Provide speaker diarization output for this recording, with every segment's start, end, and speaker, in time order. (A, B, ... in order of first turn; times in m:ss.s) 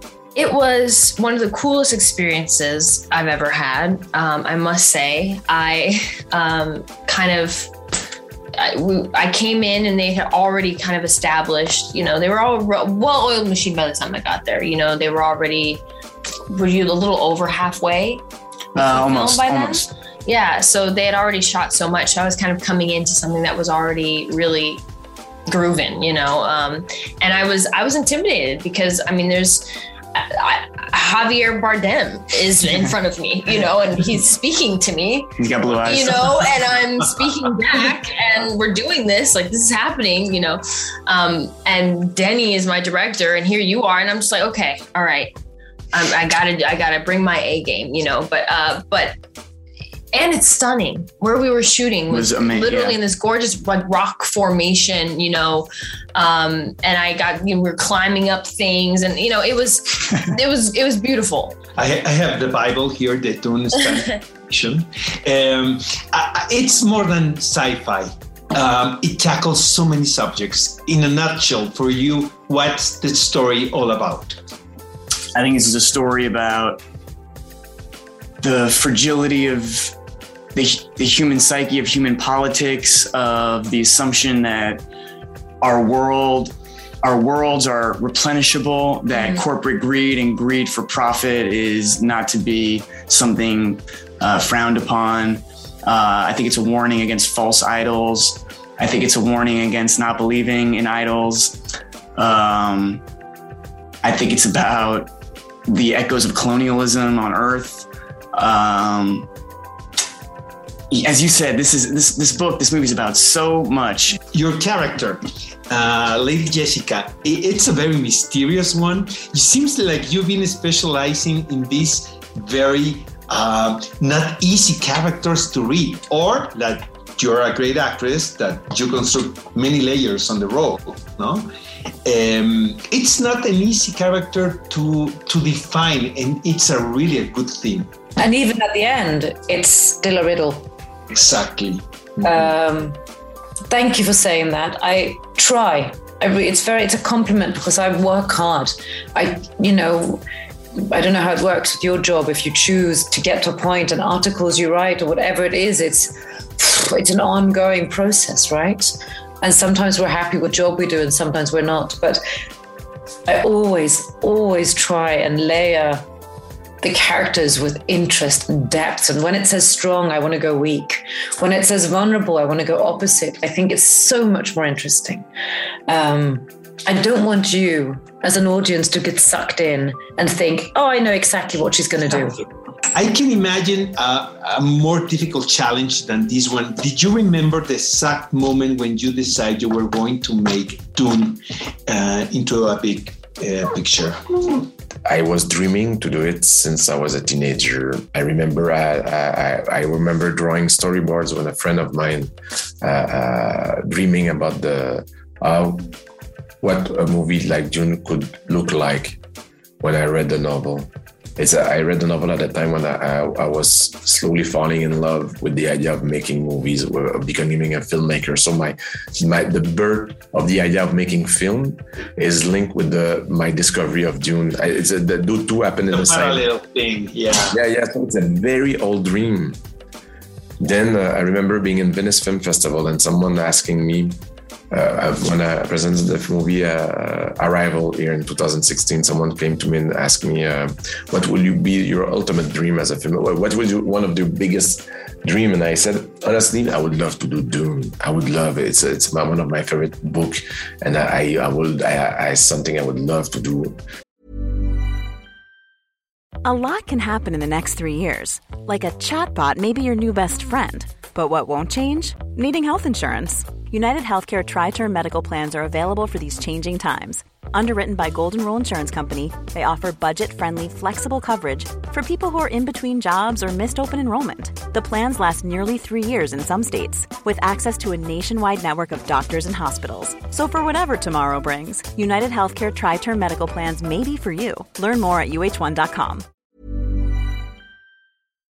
0:00.3-0:07.7 A
0:08.6-0:15.8 A
0:16.5-0:18.2 A
0:18.8-0:19.9 B
0:18.8-0:24.8 A
0:25.5-0:45.3 A
0:35.4-0:36.7 B
0:45.9-0:49.2 A
0:50.1-1:01.6 A
0:52.1-0:53.0 B
1:01.8-1:14.4 C
1:15.3-1:16.8 B
1:18.4-1:19.9 B
1:20.5-1:24.8 B
1:25.6-1:41.6 B
1:42.2-1:43.0 B
1:44.0-1:45.1 B
1:45.7-1:49.3 B
1:50.9-1:54.2 B
1:54.3-2:11.5 C
2:12.0-2:17.9 C
2:18.2-2:20.7 D
2:21.1-2:22.5 C
2:22.2-2:23.0 D
2:23.7-2:30.2 D
2:30.8-2:42.2 D
2:43.3-2:46.0 D
2:46.8-2:55.2 D
2:55.9-3:02.4 D
3:02.9-3:14.3 C
3:15.0-3:25.9 E
3:26.6-3:29.2 E
3:29.8-3:46.5 E
3:45.9-3:47.6 C
3:47.5-3:49.6 E
3:50.6-3:54.2 E
3:54.7-4:13.8 E
4:16.4-4:46.2 F